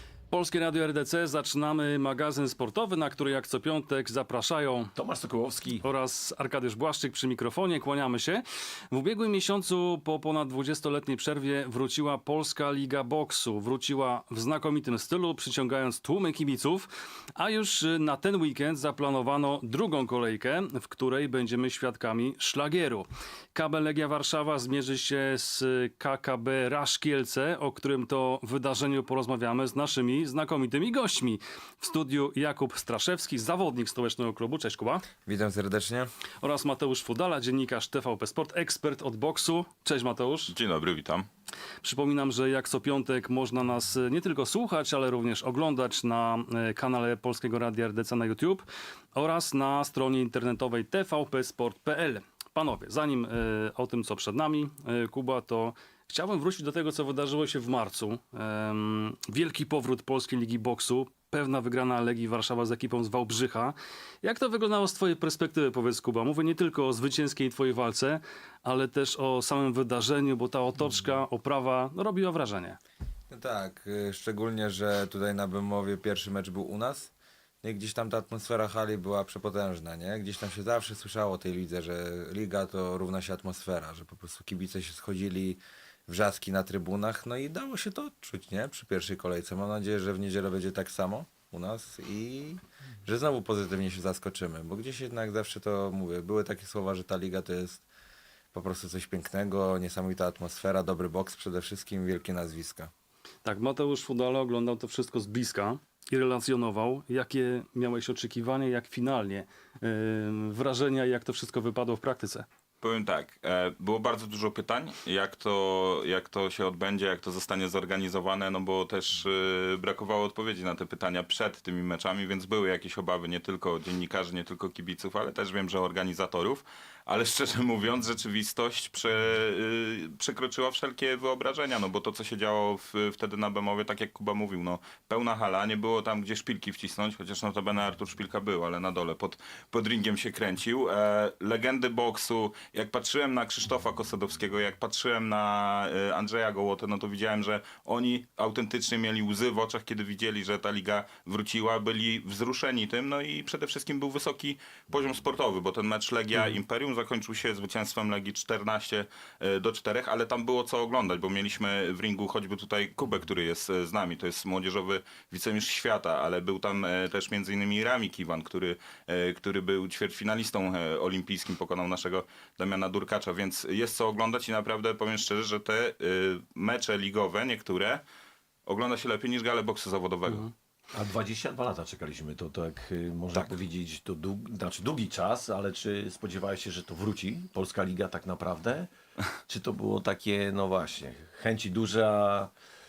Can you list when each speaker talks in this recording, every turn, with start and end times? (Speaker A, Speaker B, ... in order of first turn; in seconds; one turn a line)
Speaker A: 0.3-4.9
Speaker B: 5.0-5.8
Speaker A: 5.8-35.0
Speaker C: 35.3-36.1
Speaker A: 36.4-40.5
Speaker D: 40.5-41.3
Speaker A: 41.8-72.8
Speaker C: 73.3-77.1
Speaker C: 77.6-97.8
Speaker C: 98.5-102.9
Speaker A: 103.4-112.5
Speaker D: 112.8-178.0
Speaker D: 178.7-180.5
Speaker B: 180.9-188.9
Speaker B: 189.5-192.5